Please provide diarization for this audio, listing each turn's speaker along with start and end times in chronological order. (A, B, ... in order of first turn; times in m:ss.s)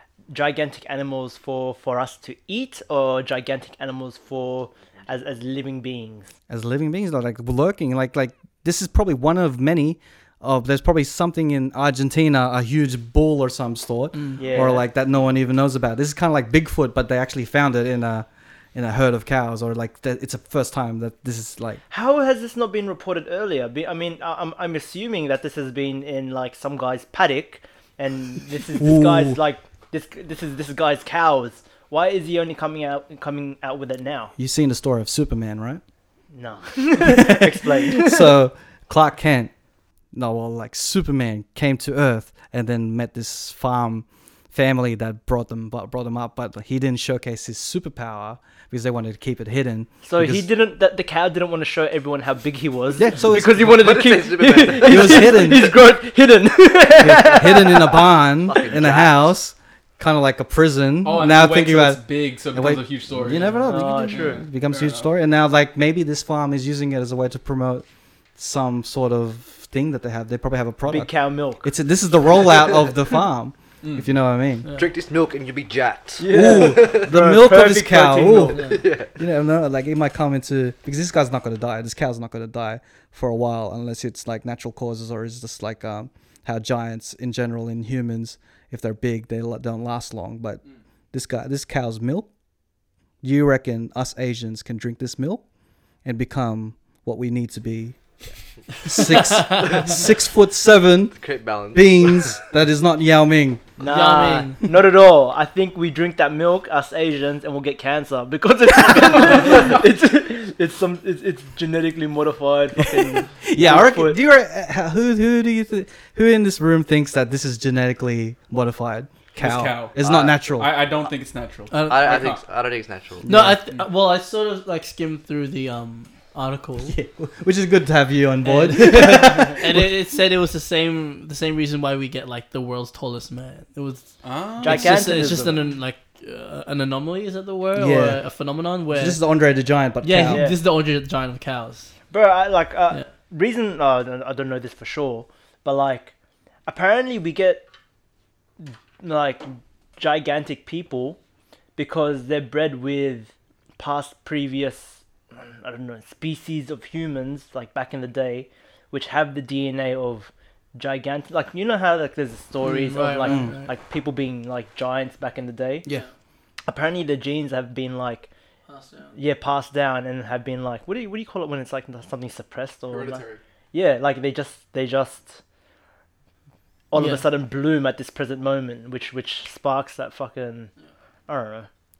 0:00.3-0:06.3 A
0:06.5-0:21.8 B
0:14.1-0:14.5 C
0:14.4-0:14.8 A
0:21.9-0:34.3 A
0:28.8-0:29.4 B
0:34.4-0:35.8 B
0:36.3-0:38.3 A
0:37.0-0:39.5 B
0:40.1-0:50.4 B
0:50.0-0:58.0 A
0:52.9-0:53.7 B
0:53.5-0:55.4 D
0:54.8-0:55.7 B
0:57.0-1:07.8 B
0:58.4-0:59.3 D
1:01.0-1:05.0 E
1:03.6-1:04.4 A
1:08.4-1:14.6 B
1:10.9-1:11.7 A
1:13.8-1:14.1 E
1:14.8-1:17.1 D
1:16.2-1:18.7 A
1:16.3-1:18.6 B
1:18.6-1:19.1 D
1:19.1-1:30.6 B
1:31.1-1:32.3 B
1:33.2-1:35.4 B
1:36.0-1:38.0 B
1:38.8-1:41.2 B
1:41.1-1:42.4 D
1:41.7-1:43.6 B
1:43.8-1:54.2 A
1:43.8-1:44.6 C
1:53.4-2:00.7 B
1:59.4-2:00.0 E
2:00.0-2:00.4 D
2:00.5-2:02.4 E
2:01.7-2:02.3 C
2:01.9-2:03.2 D
2:03.2-2:03.6 B
2:03.2-2:07.0 C
2:06.8-2:09.9 B
2:08.4-2:19.2 C
2:14.2-2:14.9 E
2:14.6-2:15.7 A
2:17.7-2:18.2 B
2:18.9-2:20.4 B
2:20.0-2:21.9 C
2:20.3-2:20.6 A
2:22.1-2:26.1 A
2:26.7-2:27.7 A
2:28.6-2:31.2 A
2:31.8-2:35.0 A
2:35.5-2:45.9 A
2:42.6-2:43.7 C
2:43.2-2:43.6 B
2:46.6-2:48.3 A
2:48.7-2:49.2 C
2:49.1-2:55.4 A
2:52.9-2:53.4 E
2:56.9-3:00.7 A
2:56.9-2:57.2 C
3:01.3-3:01.7 A